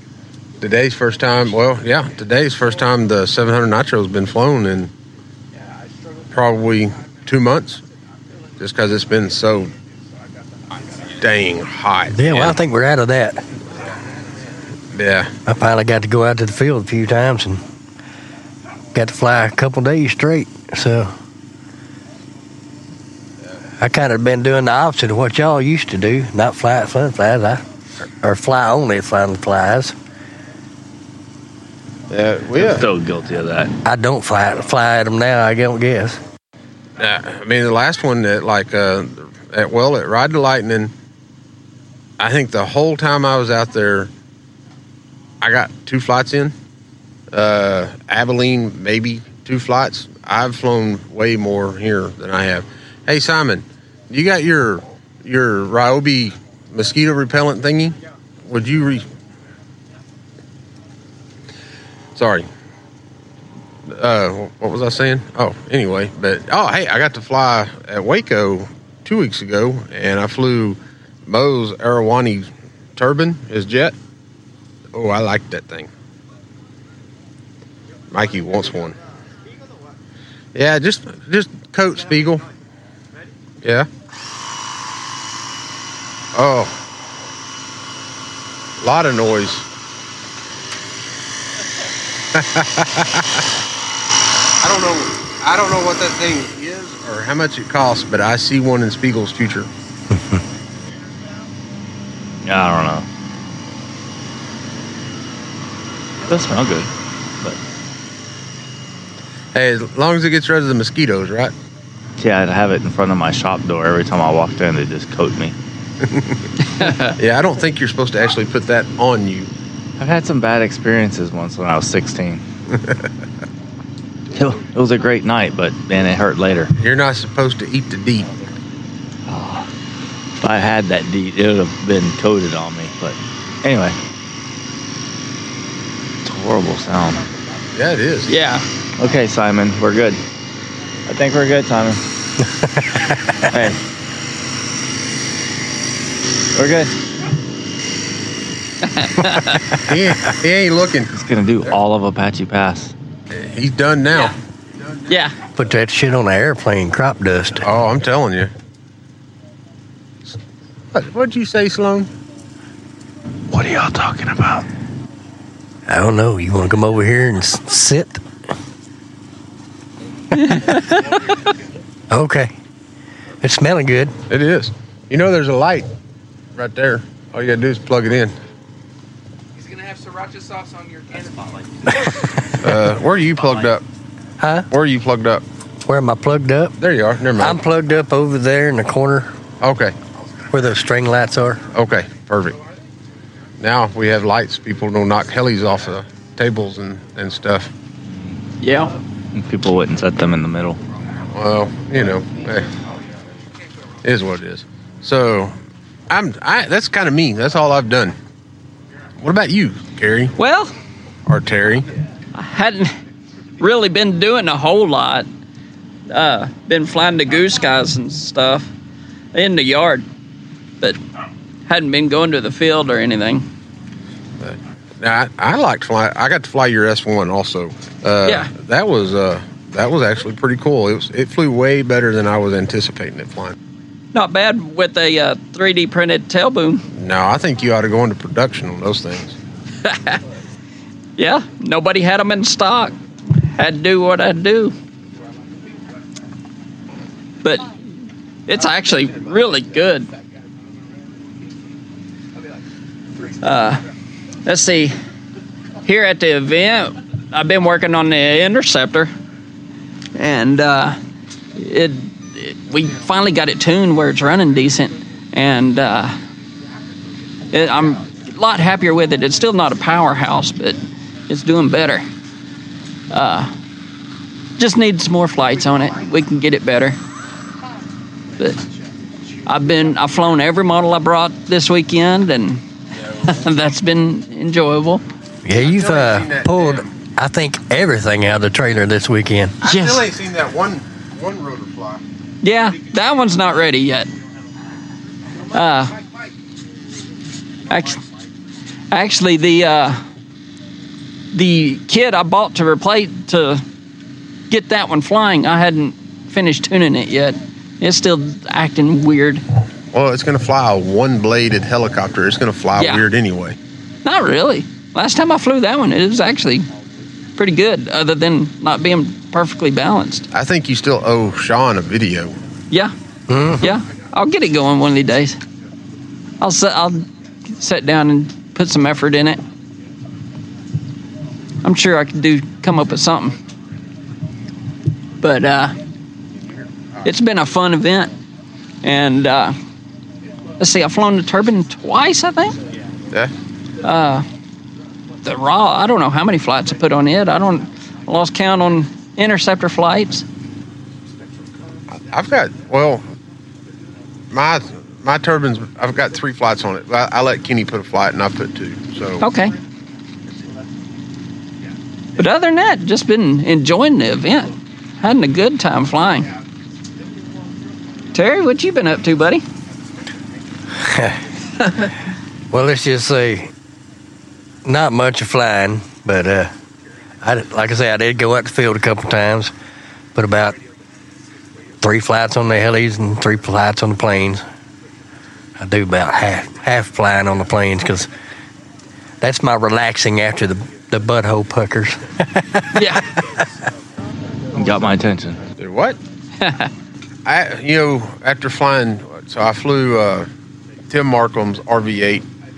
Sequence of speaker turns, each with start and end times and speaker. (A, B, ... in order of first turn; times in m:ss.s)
0:00.6-0:04.9 A
0:06.3-0:07.8 A
0:08.6-0:09.7 A
0:11.2-0:12.6 A
0:12.1-0:13.4 B
0:14.9-0:15.3 A
0:15.4-0:17.6 B
0:18.9-0:21.1 B
0:23.8-0:27.6 B
0:28.2-0:29.9 B
0:32.1-0:32.8 A
0:32.6-0:33.7 C
0:33.8-0:36.2 B
0:37.0-0:40.9 A
0:42.2-0:44.1 A
0:45.4-0:46.5 A
0:47.3-0:59.0 A
1:02.2-1:02.5 A
1:03.9-1:13.9 A
1:14.9-1:15.9 A
1:18.1-1:19.0 A
1:20.5-1:22.4 A
1:23.6-1:23.9 A
1:26.3-1:26.8 A
1:28.8-1:29.7 A
1:32.3-1:33.4 A
1:34.6-1:39.7 A
1:42.4-1:43.1 C
1:46.3-1:46.9 C
1:49.5-1:51.5 A
1:52.2-1:55.6 C
1:56.0-1:56.4 A
1:56.7-1:57.2 D
1:57.1-1:59.5 A
2:00.0-2:02.4 C
2:02.7-2:03.0 A
2:04.3-2:06.7 C
2:06.8-2:08.3 A
2:09.3-2:09.7 C
2:10.4-2:14.0 C
2:16.2-2:17.2 C
2:17.7-2:18.3 A
2:18.3-2:18.6 D
2:19.0-2:20.2 C
2:21.1-2:22.0 C
2:22.9-2:23.4 B
2:23.5-2:23.8 C
2:26.5-2:26.9 C
2:28.9-2:29.6 D
2:29.8-2:31.1 A
2:31.1-2:32.9 C
2:33.3-2:34.3 A
2:35.1-2:35.3 D
2:35.6-2:37.6 B
2:37.6-2:38.5 A
2:40.9-2:42.1 A
2:43.5-2:44.6 C
2:45.9-2:48.2 B
2:50.4-2:51.1 D
2:52.1-2:52.5 B
2:53.4-2:54.2 B
2:54.3-2:55.9 A
2:56.5-2:58.4 A
2:59.6-3:01.6 E
3:02.6-3:03.8 A
3:04.4-3:04.7 B
3:04.7-3:05.4 A
3:05.8-3:06.7 B
3:06.8-3:07.6 A
3:07.4-3:09.3 B
3:09.6-3:09.9 A
3:10.5-3:11.6 B
3:11.7-3:12.6 A
3:13.6-3:17.7 A
3:18.1-3:18.4 C
3:18.6-3:18.9 D
3:19.3-3:20.8 C
3:21.3-3:22.7 A
3:24.0-3:25.6 A
3:26.1-3:28.2 A
3:29.2-3:30.3 A
3:30.4-3:30.7 D
3:31.2-3:31.9 A
3:32.3-3:32.9 D
3:33.6-3:35.2 D
3:36.1-3:38.7 D
3:39.3-3:40.0 D
3:41.7-3:43.4 D
3:44.4-3:53.6 A
3:48.2-3:48.5 D
3:54.1-3:56.8 D
3:56.9-3:59.4 A
3:59.8-4:00.2 D
4:01.2-4:03.0 D
4:03.5-4:04.7 D
4:07.4-4:07.7 D
4:08.5-4:10.1 D
4:13.4-4:13.8 D
4:14.4-4:14.9 D
4:15.8-4:19.1 D
4:20.2-4:21.0 D
4:21.6-4:26.1 D
4:27.5-4:32.0 D
4:33.1-4:33.5 D
4:34.6-4:37.0 D
4:39.4-4:42.6 D
4:43.0-4:43.3 A
4:43.2-4:45.0 D
4:45.4-4:49.6 B
4:45.6-4:46.8 A
4:49.6-4:52.0 A
4:49.6-4:50.1 D
4:52.4-4:54.1 D
4:55.5-4:56.0 D
4:57.7-4:58.0 D
4:58.9-5:00.0 D
5:01.3-5:03.6 D
5:04.5-5:09.4 D
5:09.9-5:13.6 A
5:12.8-5:13.0 D
5:14.0-5:16.7 D
5:17.4-5:20.2 D
5:20.3-5:22.4 A
5:23.3-5:23.8 B
5:23.6-5:25.4 D
5:26.4-5:29.4 D
5:31.6-5:33.4 D
5:35.2-5:35.7 D
5:36.3-5:36.7 A
5:37.0-5:38.1 D
5:38.8-5:39.6 D
5:40.6-5:42.6 D
5:43.8-5:44.2 D
5:45.2-5:50.2 D
5:51.9-5:53.0 A
5:54.3-5:59.2 A
5:59.2-5:59.5 D
6:02.2-6:06.3 D
6:08.1-6:09.4 D
6:10.8-6:11.2 B
6:12.5-6:13.5 B
6:14.6-6:16.5 B
6:17.2-6:19.5 B
6:20.1-6:20.6 B
6:21.8-6:24.4 B
6:25.6-6:28.1 B
6:29.2-6:33.3 B
6:32.7-6:33.1 D
6:34.5-6:35.4 C
6:35.6-6:36.0 A
6:36.4-6:36.7 D
6:37.2-6:40.3 A
6:40.9-6:42.2 A